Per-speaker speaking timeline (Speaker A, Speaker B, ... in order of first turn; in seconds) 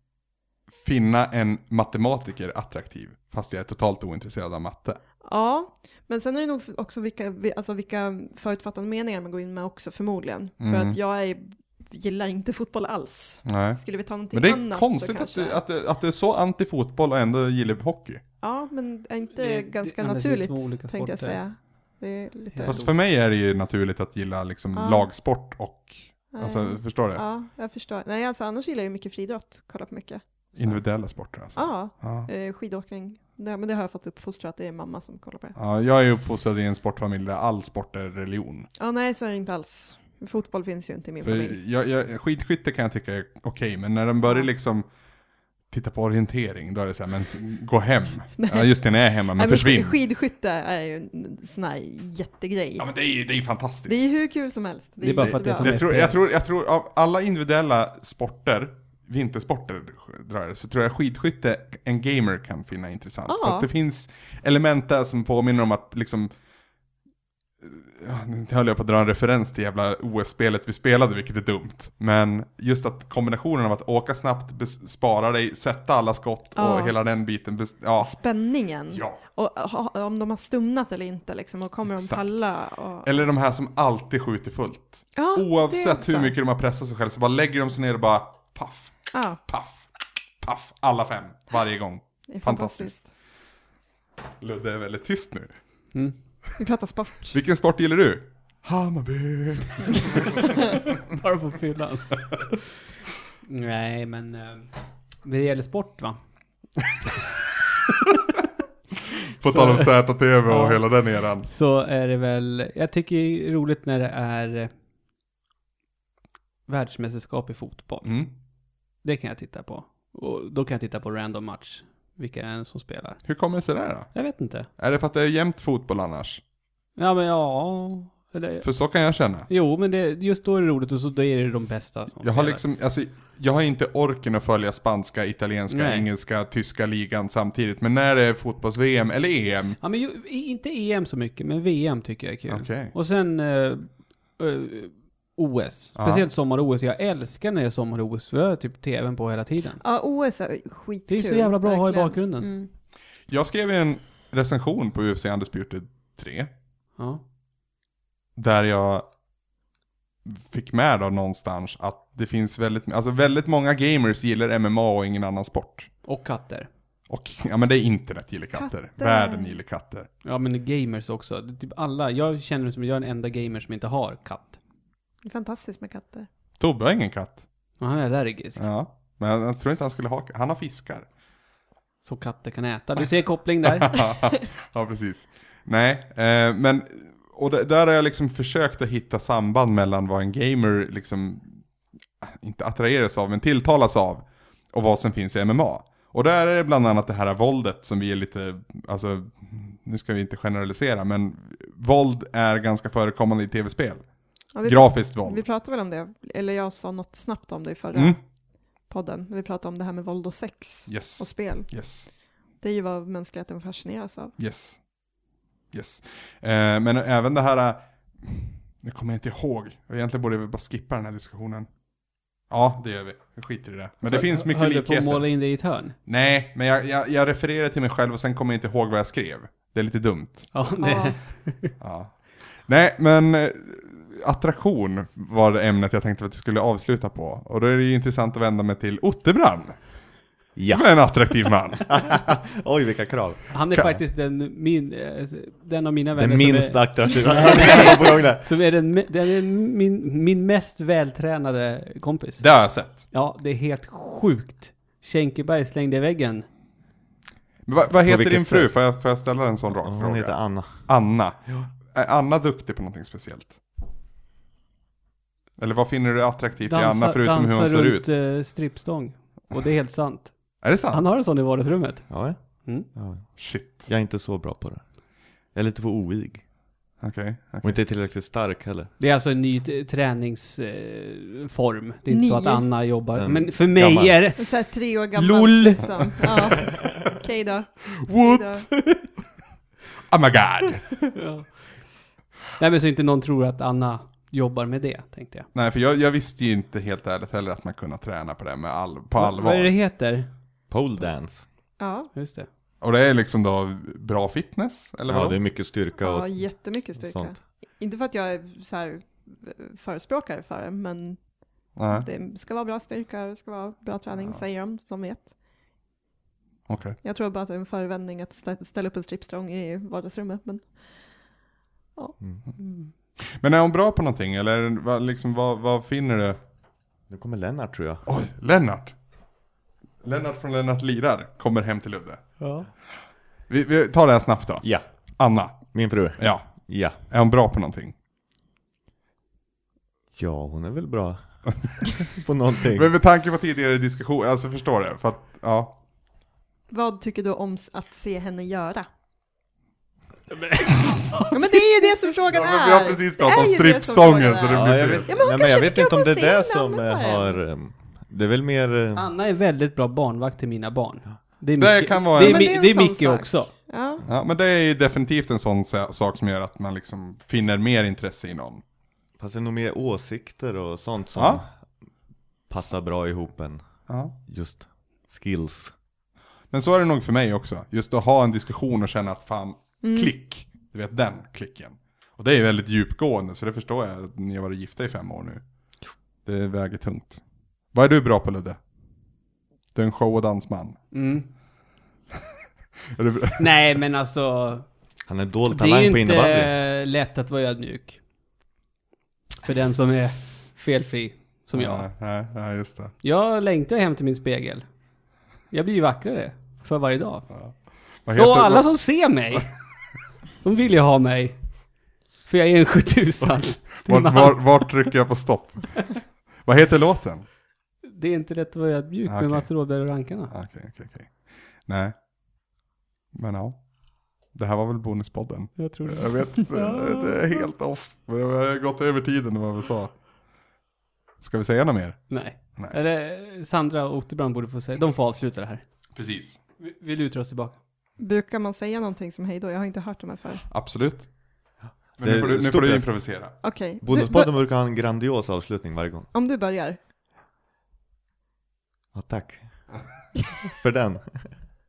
Speaker A: 0.8-5.0, 10.6-11.0, 13.5-13.8, 14.3-18.2, 22.7-27.2, 30.6-32.3, 35.6-38.7, 41.2-44.9, 45.7-50.0, 52.8-54.0, 55.1-66.3, 67.6-78.1, 78.9-79.2, 81.9-82.2, 83.0-88.9, 89.5-89.8, 90.4-92.9, 94.4-95.5, 97.3-100.6, 109.4-111.5, 118.0-118.3, 123.2-124.2, 124.7-126.4, 128.6-129.5, 132.2-139.8, 142.5-142.9, 146.0-146.2, 153.3-156.5, 158.4-159.1, 160.2-165.9, 167.1-170.1, 176.6-177.4, 178.6-181.1, 183.7-191.6, 192.2-204.1, 204.6-205.4, 210.9-212.1, 214.4-214.8, 215.7-221.7, 222.5-225.3, 226.1-230.5, 231.8-239.9, 240.7-242.1, 243.7-244.0, 252.4-253.0, 257.7-263.6, 265.6-268.1, 270.6-271.0, 273.4-273.9, 277.0-277.8, 283.8-284.1, 288.0-288.7, 290.1-291.0, 295.5-299.7, 302.8-305.4, 311.8-312.1, 316.7-317.0, 323.2-326.4, 328.1-328.9, 330.0-332.3, 333.5-334.7, 335.2-337.9, 342.7-345.8, 352.3-355.1, 361.6-362.6, 364.0-368.6, 371.2-371.4, 373.9-374.1, 376.5-385.4, 386.2-387.2, 387.7-388.6, 389.8-390.8, 392.9-393.5, 401.5-402.9, 407.3-408.7, 413.9-417.3, 419.1-419.6, 420.3-421.9, 423.1-423.7, 424.3-429.9, 431.2-432.8, 435.9-436.4, 440.5-441.1, 442.0-443.4
Speaker B: 5.2-15.6, 18.4-22.8, 24.7-25.1, 26.3-30.2, 31.5-35.6, 38.8-41.6, 44.2-44.5, 48.4-52.9, 53.9-56.1, 63.3-63.7, 76.6-76.9, 78.0-83.2, 85.2-86.3, 89.1-89.4, 92.3-93.1, 96.6-97.4, 149.8-152.7, 168.6-169.6, 175.3-176.3, 204.6-208.2, 208.9-211.9, 212.6-214.3, 230.8-231.2, 282.1-282.7, 284.4-288.7, 301.8-302.1, 306.0-311.2, 311.9-315.3, 317.0-320.6, 346.7-348.9, 351.3-357.4, 362.1-364.0, 379.8-380.1, 438.0-440.4, 443.4-444.3, 446.1-446.8
Speaker C: 19.4-21.4, 22.5-22.9, 30.6-30.8, 55.0-56.2, 100.6-102.7, 103.4-104.7, 105.2-106.2, 109.4-109.9, 110.4-110.9, 111.4-114.7, 116.7-118.2, 119.0-123.2, 124.1-124.7, 127.0-128.7, 129.5-132.6, 135.7-136.1, 139.8-149.8, 151.1-152.5, 157.0-157.2, 166.0-166.7, 170.2-174.6, 177.8-178.6, 182.0-184.0, 224.1-226.0, 230.5-231.7, 243.5-252.5, 253.0-256.5, 266.6-272.9, 279.0-284.5, 285.1-286.4, 291.1-291.6, 292.6-295.5, 299.1-300.3, 302.1-302.5, 332.4-332.7, 350.3-351.3, 358.9-363.5, 390.9-391.3, 393.4-394.7, 395.5-398.0, 399.4-401.9, 403.0-404.7, 405.5-407.3, 408.1-409.5, 410.4-411.4, 412.2-414.7, 417.9-420.3, 425.6-427.4, 432.1-435.6, 436.6-437.6
Speaker D: 240.6-241.1, 241.8-243.5, 246.1-248.5, 258.0-258.8, 259.8-260.9, 272.1-274.8, 275.5-276.4, 277.6-278.9, 283.1-283.9, 300.7-301.4, 305.1-307.3, 327.1-328.1, 335.7-337.0, 340.1-342.9, 354.5-359.1, 369.2-371.5, 372.5-375.7, 395.1-396.5, 441.7-442.9, 443.8-446.1, 448.9-449.7, 450.5-451.1